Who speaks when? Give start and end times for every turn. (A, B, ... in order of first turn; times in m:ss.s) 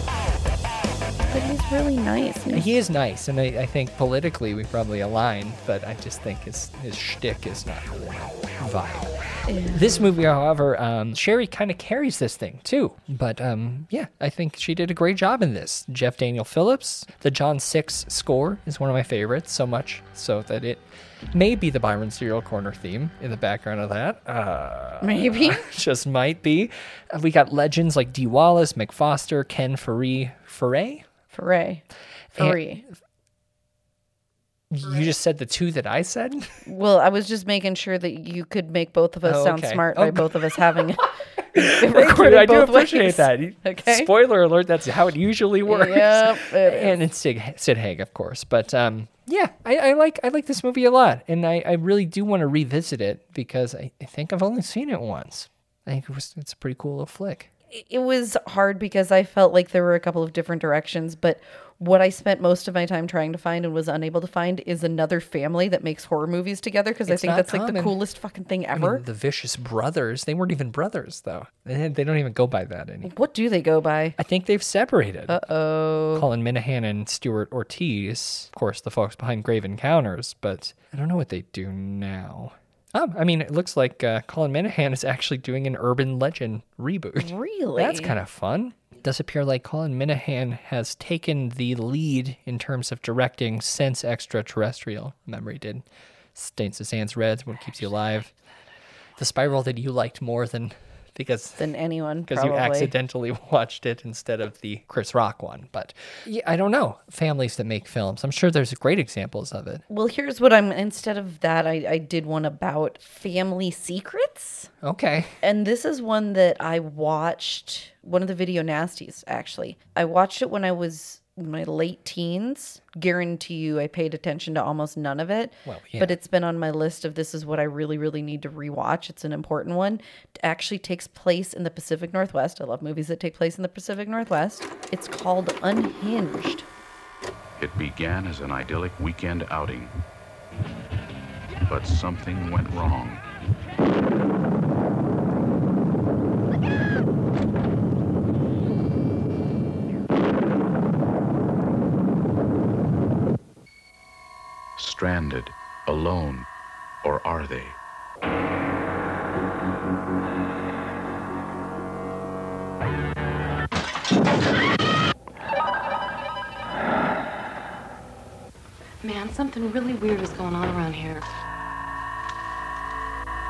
0:01.3-0:02.7 A
0:02.5-0:09.1 B
0:09.5-0:10.1 A
0:09.7-0:31.1 B
0:25.0-0:25.7 A
0:31.3-0:32.8 A
0:32.4-0:32.9 B
0:34.7-0:36.5 B
0:36.7-0:44.1 A
0:39.2-0:40.6 B
0:41.6-0:57.5 B
0:45.7-0:47.0 A
0:57.7-1:09.0 A
1:07.1-1:08.0 B
1:08.7-1:13.1 B
1:13.0-1:14.2 A
1:14.2-1:15.4 B
1:15.3-1:16.3 A
1:16.2-1:38.3 B
1:27.2-1:28.2 A
1:39.2-1:41.6 B
1:41.6-1:42.9 A
1:42.3-1:49.8 B
1:49.9-1:54.7 A
1:54.8-1:55.3 B
1:55.4-2:16.7 A
2:05.7-2:06.2 B
2:17.6-2:20.0 C
2:21.7-2:23.2 C
2:34.8-2:36.5 C
2:37.0-2:37.8 C
2:49.0-2:51.3 D